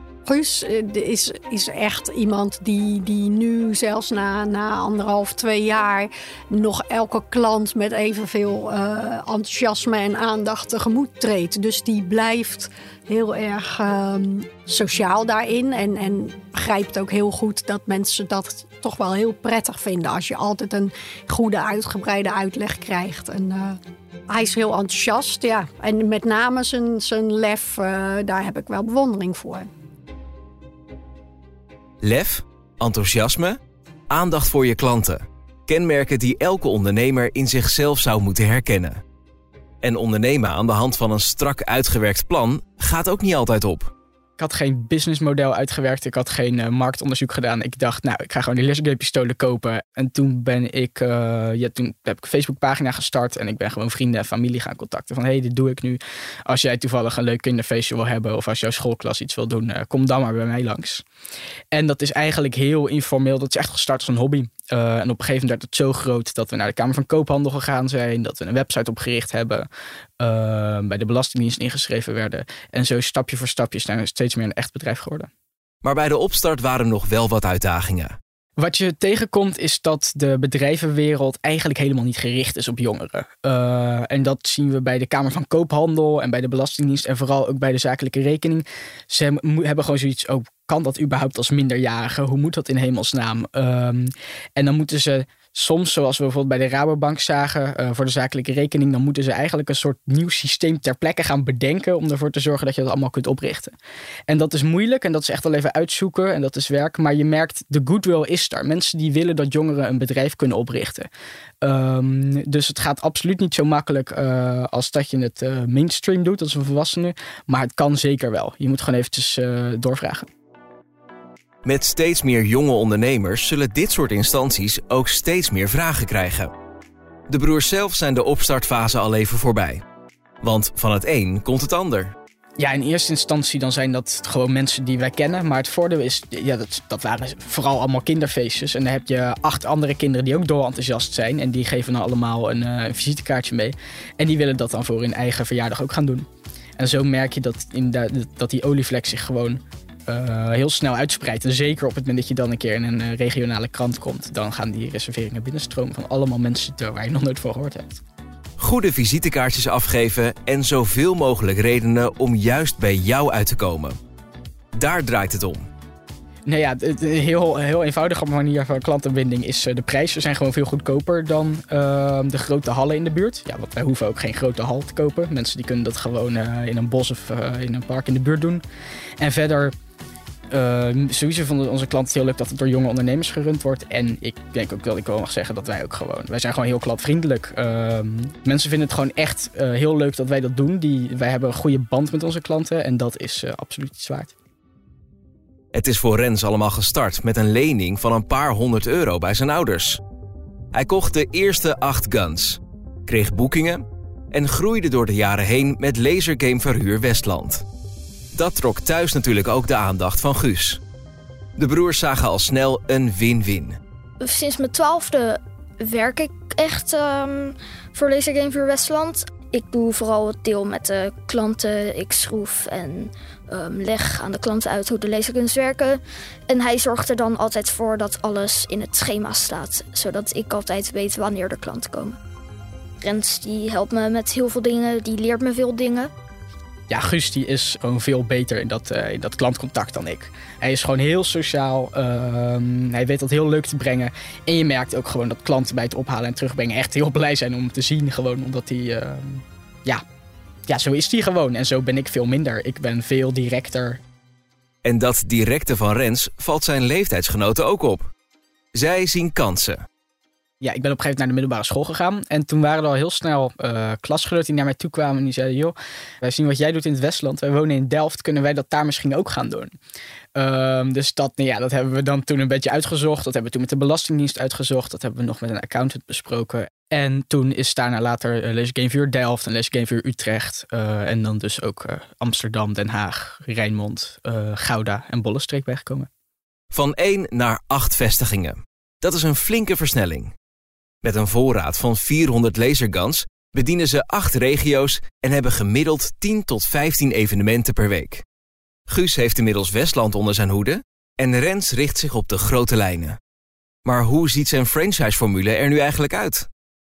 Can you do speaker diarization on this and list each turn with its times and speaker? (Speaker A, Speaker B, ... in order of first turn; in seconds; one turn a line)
Speaker A: 0.2-23.8
Speaker A: 24.3-29.7
Speaker B: 32.0-33.5
Speaker B: 34.1-39.0
Speaker B: 39.8-43.9
Speaker C: 44.4-61.0
Speaker C: 61.7-69.7
Speaker C: 70.2-75.3
Speaker B: 75.8-78.1
Speaker C: 78.6-103.7
Speaker C: 104.3-111.1
Speaker C: 111.6-120.3
Speaker B: 121.6-126.5
Speaker B: 127.3-129.8
Speaker B: 130.4-132.1
Speaker C: 132.6-146.2
Speaker C: 146.8-158.0
Speaker B: 158.6-163.9
Speaker B: 164.8-165.6
Speaker C: 166.4-178.6
Speaker C: 179.2-179.7
Speaker C: 180.5-194.3
Speaker B: 195.7-200.0
Speaker B: 200.7-207.6
Speaker B: 208.3-210.8
Speaker B: 211.6-213.8
Speaker D: 214.2-232.2
Speaker D: 233.0-236.1
Speaker C: 236.9-250.0
Speaker C: 250.7-254.0
Speaker B: 254.8-258.1
Speaker B: 258.8-259.8
Speaker C: 260.6-269.7
Speaker C: 270.3-286.1
Speaker B: 286.7-290.3
Speaker B: 291.0-298.2
Speaker B: 298.9-303.1
Speaker B: 303.9-306.4